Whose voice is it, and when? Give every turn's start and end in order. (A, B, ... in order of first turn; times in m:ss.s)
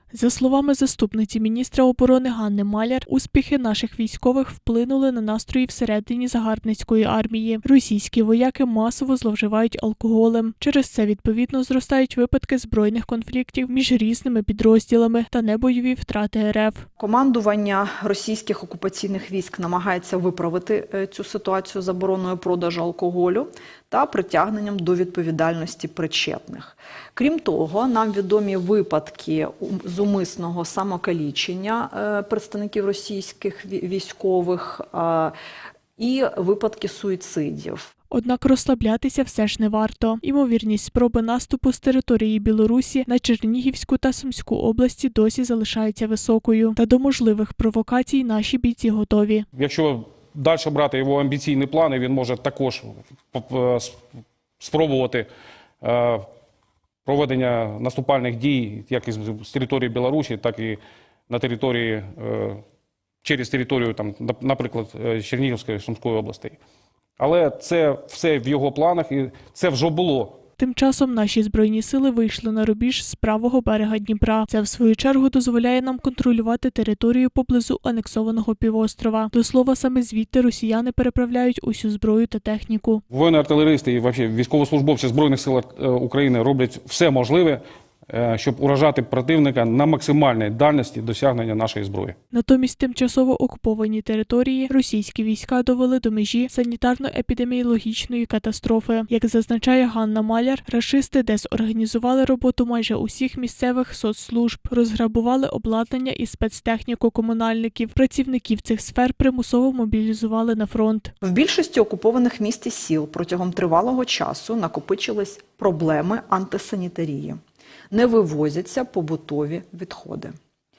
0:00.1-0:16.9 A
0:17.0-0:35.3 B
0:36.0-0:37.9 B
0:38.1-0:49.4 A
0:49.6-0:54.0 C
0:54.6-0:55.3 C
0:55.8-0:56.2 C
0:57.0-1:02.6 C
1:03.2-1:06.6 C
1:07.2-1:10.4 C
1:10.6-1:23.0 A
1:23.1-1:32.2 C
1:32.3-1:51.1 A
1:51.2-1:57.4 B
1:57.9-2:00.3 B